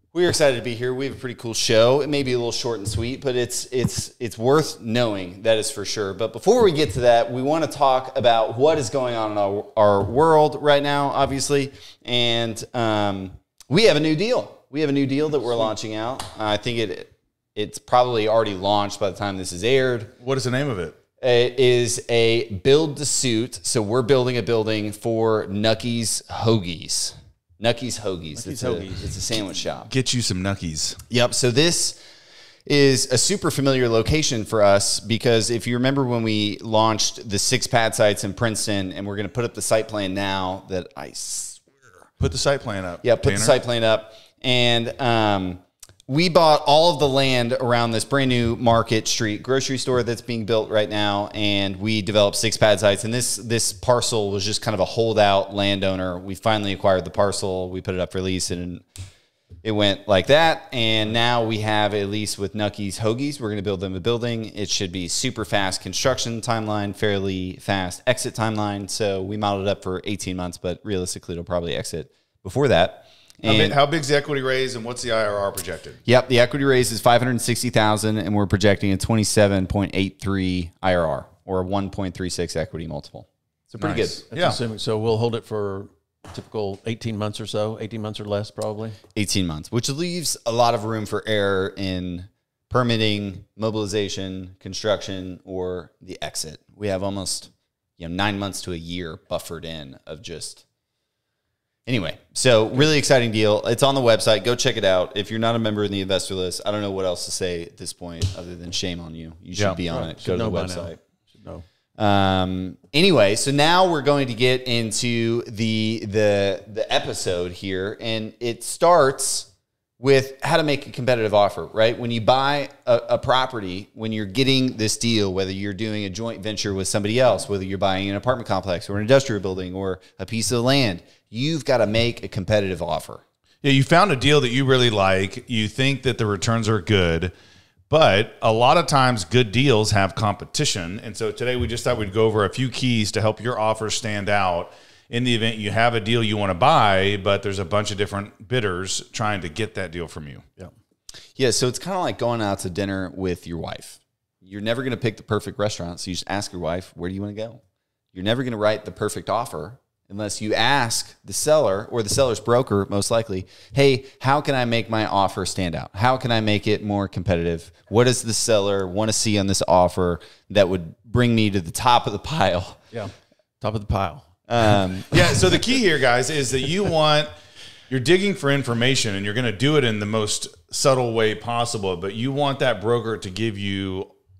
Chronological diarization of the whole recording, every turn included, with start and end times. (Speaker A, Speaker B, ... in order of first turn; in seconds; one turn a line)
Speaker A: 0.1-20.1
Speaker B: 20.2-21.0
Speaker A: 21.2-29.9
Speaker C: 28.4-29.1
Speaker B: 29.9-31.0
Speaker A: 31.1-32.0
Speaker A: 32.6-41.7
Speaker B: 42.2-43.5
Speaker A: 43.0-58.8
Speaker A: 59.6-73.8
Speaker B: 73.4-76.0
Speaker A: 76.0-84.2
Speaker B: 83.8-84.6
Speaker C: 84.3-89.0
Speaker A: 89.1-100.6
Speaker A: 101.8-111.0
Speaker C: 109.9-111.6
Speaker A: 112.0-133.2
Speaker B: 133.6-137.3
Speaker B: 137.9-150.4
Speaker A: 151.3-157.6
Speaker A: 158.1-172.8
Speaker C: 172.9-174.3
Speaker A: 174.5-175.2
Speaker B: 175.1-177.3
Speaker B: 177.9-184.1